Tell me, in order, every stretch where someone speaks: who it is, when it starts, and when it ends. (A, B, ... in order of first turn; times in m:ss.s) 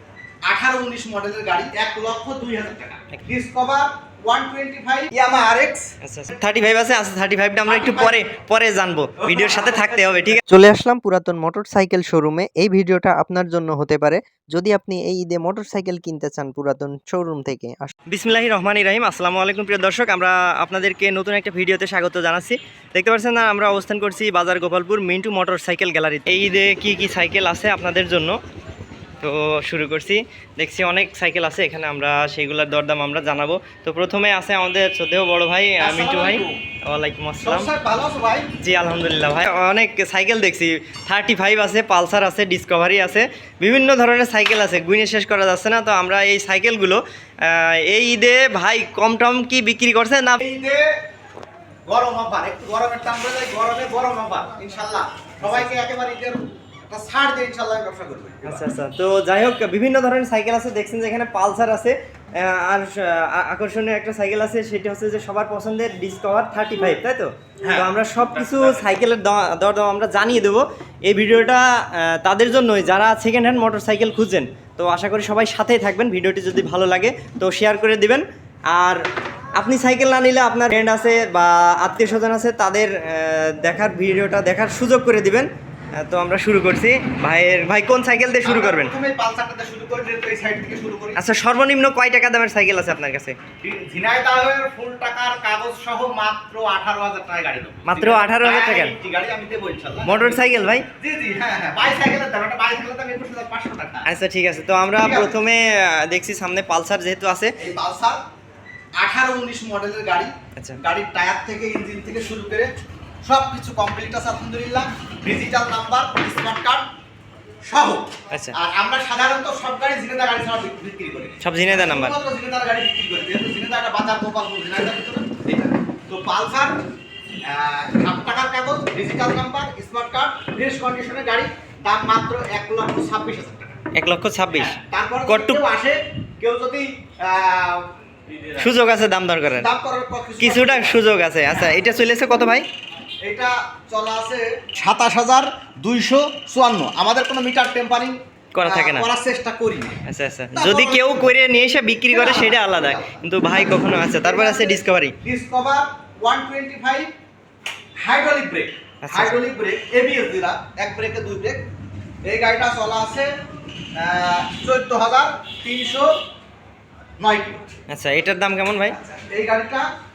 0:00.5-0:05.9 A
0:06.0-0:28.4 B
0:07.6-0:08.2 A
0:09.2-0:10.4 A
0:29.2-0:37.7 B
0:35.8-0:36.6 A
0:37.4-0:38.5 A
0:38.6-0:50.4 B
0:50.4-0:50.9 A
0:51.9-0:58.6 A
0:55.4-0:55.8 B
0:58.4-1:19.0 B
1:07.6-1:08.8 A
1:19.6-1:25.5 B
1:26.0-1:28.9 B
1:28.4-1:31.2 A
1:31.2-1:33.4 B
1:33.6-1:40.4 A
1:37.9-1:39.0 B
1:40.0-1:40.8 B
1:41.0-1:44.1 A
1:44.1-1:47.6 B
1:45.0-1:45.4 A
1:47.6-1:48.2 A
1:49.0-1:52.7 A
1:53.2-1:56.9 A
1:57.7-2:06.8 A
2:01.4-2:02.2 B
2:07.4-2:13.8 A
2:14.0-2:15.6 B
2:14.5-2:17.9 A
2:18.6-2:19.7 B
2:19.6-2:21.0 A
2:20.4-2:22.6 B
2:23.2-2:30.0 A
2:28.6-2:29.1 B
2:30.1-2:35.2 B
2:30.5-2:31.3 A
2:32.1-2:37.1 A
2:38.0-2:41.7 A
2:39.0-2:39.4 B
2:42.2-2:43.3 A
2:44.0-2:46.1 A
2:47.2-2:47.7 A
2:47.9-2:49.0 B
2:48.9-2:49.9 A